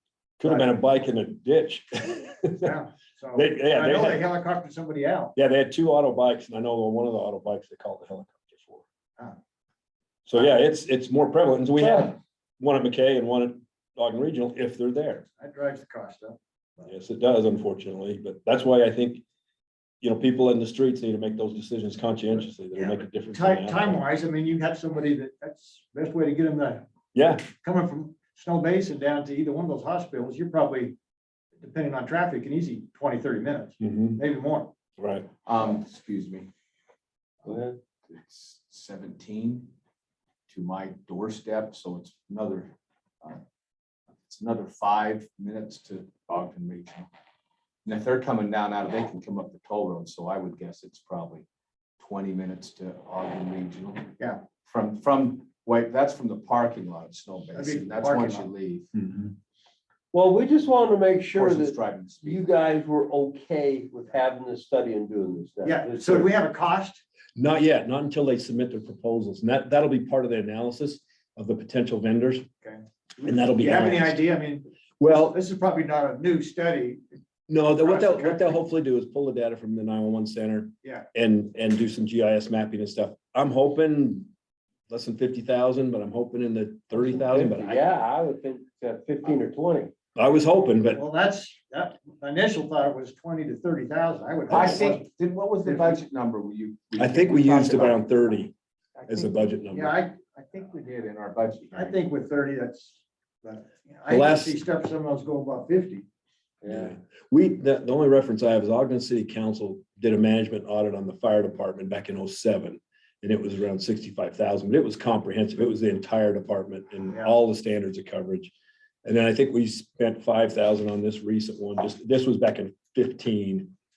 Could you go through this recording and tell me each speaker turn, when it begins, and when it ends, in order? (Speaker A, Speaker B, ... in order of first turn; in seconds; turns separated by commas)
Speaker A: 0.4-2.8, Speaker B: 0.4-0.8, Speaker B: 2.6-5.3, Speaker A: 3.3-4.3, Speaker A: 5.4-8.8, Speaker A: 10.2-15.3, Speaker B: 15.4-16.9, Speaker A: 16.8-19.2, Speaker A: 20.0-24.0, Speaker B: 22.7-26.8, Speaker A: 27.1-27.5, Speaker B: 27.6-30.9, Speaker B: 31.6-34.7, Speaker A: 33.8-34.2, Speaker A: 35.0-35.3, Speaker C: 35.5-36.5, Speaker D: 37.5-37.8, Speaker C: 38.1-39.7, Speaker C: 40.5-43.4, Speaker C: 44.2-47.1, Speaker C: 47.8-51.5, Speaker C: 52.0-58.9, Speaker B: 57.5-58.5, Speaker A: 59.0-59.3, Speaker D: 60.1-66.3, Speaker C: 61.3-62.5, Speaker B: 65.6-67.0, Speaker A: 67.4-72.5, Speaker B: 72.6-77.0, Speaker A: 73.2-74.2, Speaker A: 75.0-75.4, Speaker A: 77.5-84.3, Speaker B: 77.8-78.6, Speaker A: 84.9-87.8, Speaker D: 86.9-89.9, Speaker A: 90.2-91.0, Speaker B: 90.9-95.1, Speaker C: 94.5-98.2, Speaker B: 95.6-96.0, Speaker A: 97.0-98.5, Speaker C: 99.0-99.5, Speaker A: 99.1-100.0, Speaker B: 99.7-100.8, Speaker C: 100.5-102.0, Speaker B: 101.7-106.1, Speaker A: 104.1-104.6, Speaker D: 106.6-107.0, Speaker A: 106.7-118.5, Speaker A: 119.0-123.7